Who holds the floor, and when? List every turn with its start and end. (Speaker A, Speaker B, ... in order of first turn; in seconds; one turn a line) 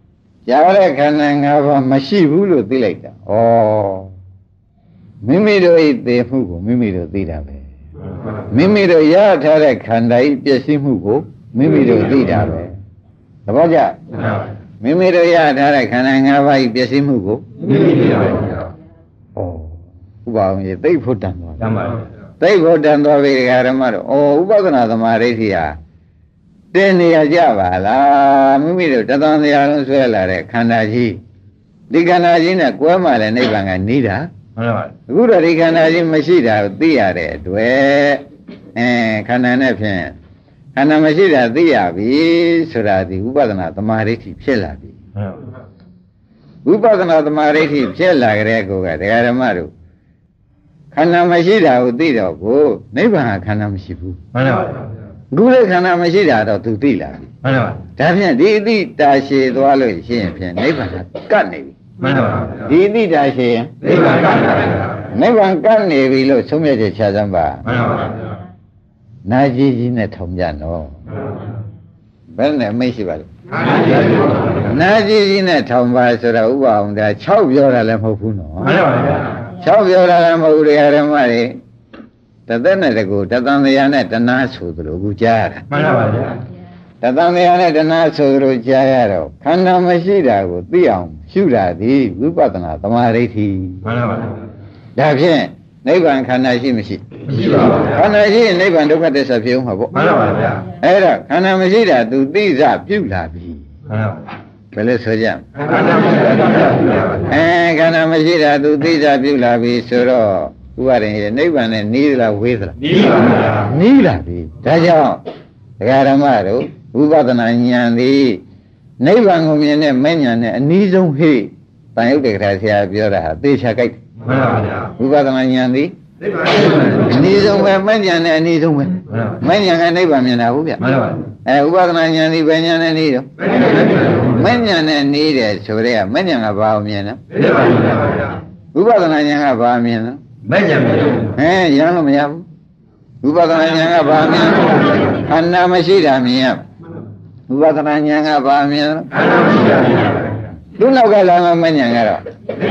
Speaker A: 0.5-4.1
Speaker A: 5.2-7.6
Speaker A: 8.5-12.7
Speaker A: 13.5-14.0
Speaker A: 14.8-17.4
Speaker B: 17.6-18.5
Speaker A: 19.4-19.7
Speaker A: 20.2-25.8
Speaker B: 21.6-22.0
Speaker A: 26.7-31.2
Speaker A: 31.9-34.3
Speaker B: 34.5-34.9
Speaker A: 35.1-40.1
Speaker A: 40.8-44.9
Speaker A: 46.6-49.7
Speaker A: 50.9-54.2
Speaker B: 54.3-54.8
Speaker A: 55.3-57.3
Speaker B: 57.4-57.8
Speaker A: 58.0-61.8
Speaker B: 62.0-62.5
Speaker A: 62.5-63.7
Speaker B: 63.9-64.5
Speaker A: 65.1-67.8
Speaker B: 67.7-68.0
Speaker A: 69.2-71.0
Speaker A: 72.3-73.3
Speaker A: 74.6-78.8
Speaker B: 78.7-79.2
Speaker A: 79.6-81.6
Speaker A: 82.5-85.6
Speaker B: 85.7-86.4
Speaker A: 87.0-93.8
Speaker B: 93.8-94.4
Speaker A: 95.0-97.0
Speaker A: 97.8-100.0
Speaker B: 99.9-100.6
Speaker A: 100.8-103.6
Speaker B: 103.9-104.2
Speaker A: 104.7-105.5
Speaker B: 106.1-106.7
Speaker A: 107.3-113.0
Speaker A: 113.5-115.2
Speaker A: 115.8-118.4
Speaker A: 119.0-124.0
Speaker B: 124.3-124.8
Speaker A: 125.0-125.9
Speaker A: 126.9-130.8
Speaker B: 130.8-131.2
Speaker A: 131.4-133.3
Speaker A: 134.2-137.2
Speaker B: 137.3-138.2
Speaker A: 138.7-140.2
Speaker B: 140.4-141.3
Speaker A: 141.3-142.4
Speaker A: 143.2-146.6
Speaker A: 147.5-149.1
Speaker A: 150.8-152.2